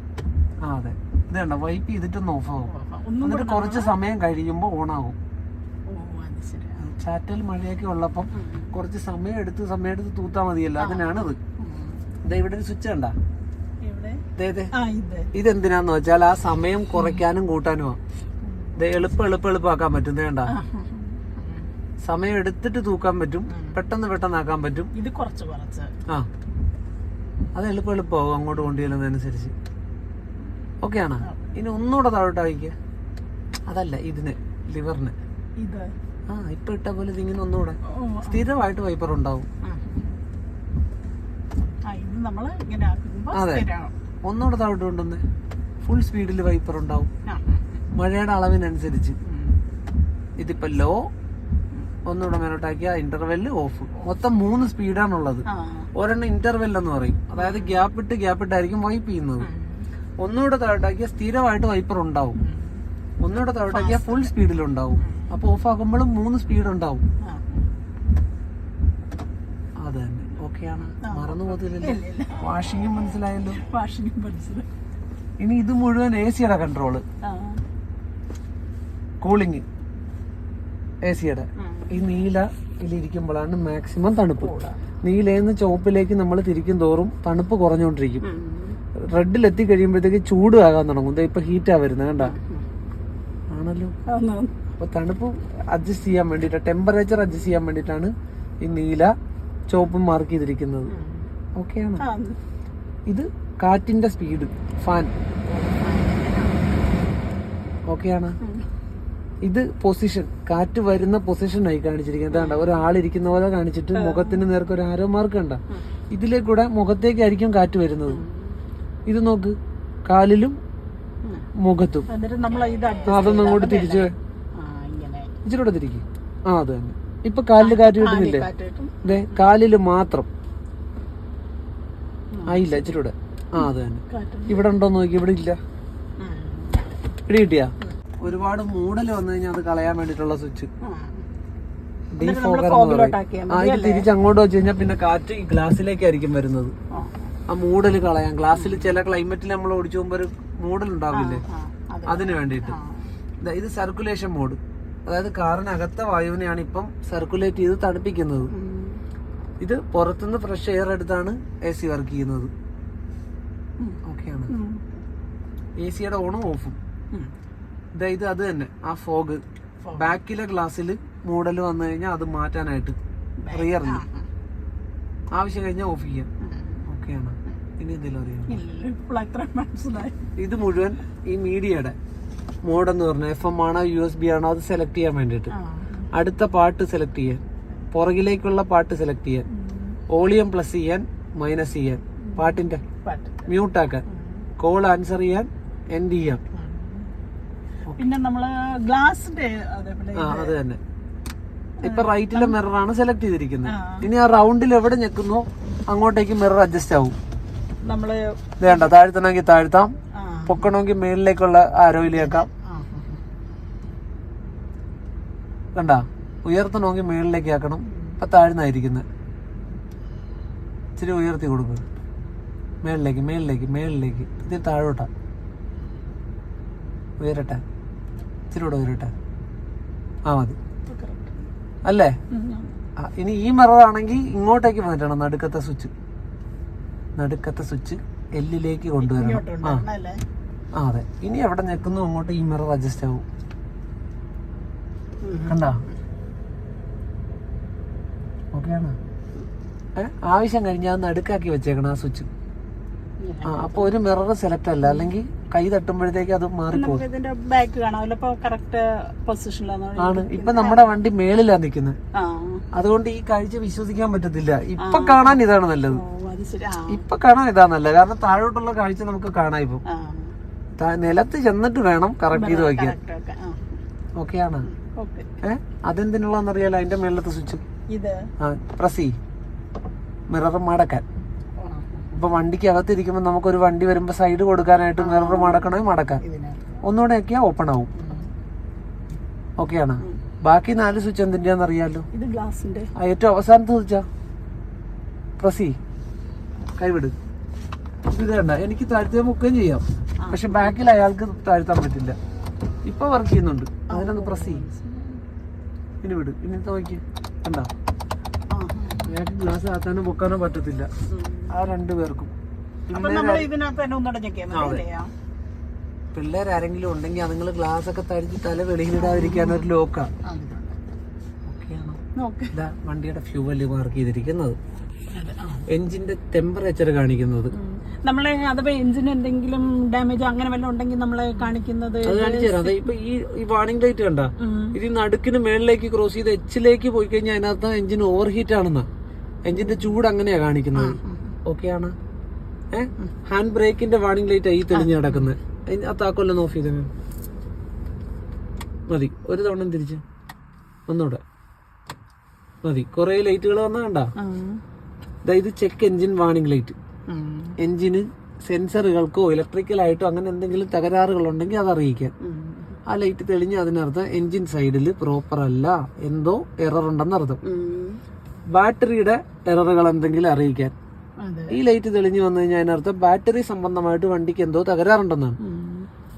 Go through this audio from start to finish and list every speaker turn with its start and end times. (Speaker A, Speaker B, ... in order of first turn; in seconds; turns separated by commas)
Speaker A: 0.6-2.7, Speaker B: 2.7-3.9, Speaker A: 3.2-5.2, Speaker B: 5.9-6.9, Speaker A: 6.8-11.4, Speaker B: 8.3-8.7, Speaker B: 10.8-12.0, Speaker A: 12.2-13.2, Speaker B: 13.8-15.3, Speaker A: 14.3-14.7, Speaker A: 15.3-18.0, Speaker B: 18.4-18.7, Speaker A: 18.8-20.5, Speaker B: 20.4-21.7, Speaker A: 22.0-24.9, Speaker B: 23.5-23.8, Speaker B: 24.9-25.9, Speaker A: 27.5-29.5, Speaker A: 30.8-32.7, Speaker B: 31.2-31.6, Speaker A: 33.7-35.1, Speaker B: 35.6-35.9, Speaker A: 36.3-39.5, Speaker B: 37.9-38.5, Speaker B: 39.6-40.1, Speaker B: 41.9-43.9, Speaker A: 43.3-43.6, Speaker A: 44.2-45.2, Speaker A: 45.8-47.1, Speaker B: 47.2-47.8, Speaker A: 47.9-49.1, Speaker B: 49.2-49.6, Speaker A: 50.4-51.0, Speaker A: 52.0-55.4, Speaker B: 55.5-55.9, Speaker A: 55.9-59.5, Speaker B: 57.4-57.9, Speaker B: 59.4-59.9, Speaker A: 60.2-62.4, Speaker B: 62.4-62.8, Speaker A: 63.2-67.0, Speaker B: 63.7-64.3, Speaker B: 65.0-65.4, Speaker B: 67.2-67.7, Speaker A: 69.8-73.6, Speaker B: 70.9-74.7, Speaker A: 75.4-77.0, Speaker B: 77.2-77.6, Speaker A: 79.2-79.6, Speaker A: 81.0-88.2, Speaker B: 81.6-82.1, Speaker B: 84.4-84.8, Speaker B: 88.2-88.8, Speaker A: 89.1-92.3, Speaker B: 92.2-92.7, Speaker A: 93.5-93.9, Speaker B: 94.1-94.5, Speaker A: 94.8-98.1, Speaker A: 98.6-99.1, Speaker A: 99.7-100.9, Speaker B: 100.9-101.3, Speaker A: 101.6-102.0, Speaker B: 102.0-102.4, Speaker A: 103.1-105.1, Speaker B: 105.5-107.1, Speaker A: 107.9-108.3, Speaker B: 108.4-108.7, Speaker A: 109.4-115.6, Speaker B: 112.3-112.8, Speaker B: 113.9-114.5, Speaker A: 116.1-118.2, Speaker B: 118.1-118.6, Speaker A: 119.1-119.5, Speaker A: 120.1-120.5, Speaker A: 121.6-122.1, Speaker B: 122.1-125.3, Speaker A: 123.0-124.1, Speaker A: 125.4-128.5, Speaker B: 127.6-129.5, Speaker A: 129.0-130.3, Speaker B: 132.3-132.8, Speaker A: 132.5-135.6, Speaker B: 133.6-134.7, Speaker B: 136.2-136.9, Speaker A: 137.3-140.7, Speaker B: 140.8-141.2, Speaker A: 142.1-146.7, Speaker B: 142.2-144.1, Speaker B: 146.9-147.3, Speaker A: 147.5-151.4, Speaker B: 148.5-149.0, Speaker B: 151.1-153.2, Speaker A: 152.1-152.8, Speaker A: 153.4-158.5, Speaker B: 158.5-159.0, Speaker A: 159.6-162.5, Speaker B: 163.8-165.0, Speaker A: 164.0-164.5, Speaker A: 165.8-166.8, Speaker A: 168.0-169.4, Speaker B: 169.8-170.2, Speaker A: 170.0-173.0, Speaker B: 173.4-174.3, Speaker A: 173.5-174.0, Speaker A: 175.3-176.3, Speaker B: 176.4-176.9, Speaker A: 176.9-178.6, Speaker B: 178.5-180.2, Speaker A: 180.4-181.9, Speaker A: 182.7-185.5, Speaker B: 185.5-186.1, Speaker A: 186.1-189.4, Speaker B: 189.5-190.0, Speaker A: 190.1-192.8, Speaker B: 192.2-193.5, Speaker A: 193.5-194.0, Speaker B: 194.1-194.5, Speaker A: 194.6-196.4, Speaker B: 196.5-197.1, Speaker B: 198.0-200.5, Speaker A: 200.2-200.8, Speaker B: 201.8-202.6, Speaker A: 201.8-207.1, Speaker B: 203.6-204.1, Speaker B: 207.8-208.9, Speaker A: 208.6-209.9, Speaker B: 210.1-210.7, Speaker A: 210.5-212.5, Speaker B: 212.1-213.2, Speaker A: 215.8-219.0, Speaker B: 217.9-218.2, Speaker A: 221.0-221.8, Speaker A: 222.8-225.1, Speaker A: 227.2-227.6, Speaker A: 228.5-229.1, Speaker A: 230.3-230.6, Speaker B: 230.8-231.4, Speaker A: 231.8-232.1, Speaker B: 232.3-232.7, Speaker A: 233.0-235.9, Speaker A: 237.2-239.8, Speaker B: 239.0-240.2, Speaker A: 240.7-243.2, Speaker B: 245.2-246.0, Speaker A: 245.5-245.8, Speaker A: 248.5-249.0, Speaker A: 250.0-252.3, Speaker B: 253.2-253.9, Speaker A: 253.4-257.0, Speaker B: 254.8-255.1, Speaker B: 256.7-261.0, Speaker A: 260.0-262.0, Speaker B: 262.1-262.6, Speaker A: 262.7-266.0, Speaker B: 264.8-267.0, Speaker A: 266.9-269.8, Speaker B: 269.9-270.3, Speaker A: 270.8-272.9, Speaker B: 272.3-273.8, Speaker A: 274.2-274.7, Speaker B: 274.6-275.3, Speaker A: 275.4-277.6, Speaker B: 277.9-278.3, Speaker A: 278.4-279.1, Speaker A: 280.3-281.0, Speaker B: 281.6-282.2, Speaker A: 282.1-286.2, Speaker B: 285.0-286.8, Speaker A: 286.8-287.9, Speaker B: 287.9-288.3, Speaker A: 289.6-292.1, Speaker B: 292.1-292.9, Speaker A: 292.9-294.1, Speaker A: 295.4-295.8, Speaker A: 296.8-297.1, Speaker A: 298.1-302.2, Speaker B: 300.2-300.8, Speaker A: 302.9-304.6, Speaker B: 303.9-305.2, Speaker A: 306.0-307.7, Speaker B: 308.5-309.2, Speaker A: 309.0-310.9, Speaker B: 311.1-311.5, Speaker A: 311.5-312.3, Speaker A: 312.9-313.5, Speaker B: 312.9-315.1, Speaker A: 314.5-314.8, Speaker A: 316.1-320.1, Speaker B: 318.9-319.7, Speaker B: 320.2-320.8, Speaker A: 321.5-322.0, Speaker B: 322.1-322.5, Speaker A: 322.5-324.6, Speaker B: 325.1-325.7, Speaker A: 325.7-327.5, Speaker B: 327.5-332.9, Speaker A: 332.0-338.9, Speaker B: 334.4-334.8, Speaker A: 339.5-341.9, Speaker B: 339.6-339.9, Speaker B: 340.7-341.4, Speaker A: 342.7-346.9, Speaker B: 344.7-345.4, Speaker A: 348.9-350.0, Speaker A: 350.9-351.2, Speaker A: 352.6-354.1, Speaker B: 354.2-354.6, Speaker A: 355.2-356.8, Speaker B: 357.1-357.6, Speaker A: 357.6-362.1, Speaker B: 362.2-362.8, Speaker A: 362.9-367.4, Speaker B: 367.4-368.0, Speaker A: 368.5-370.7, Speaker B: 371.2-371.6, Speaker A: 371.5-375.4, Speaker B: 375.4-375.9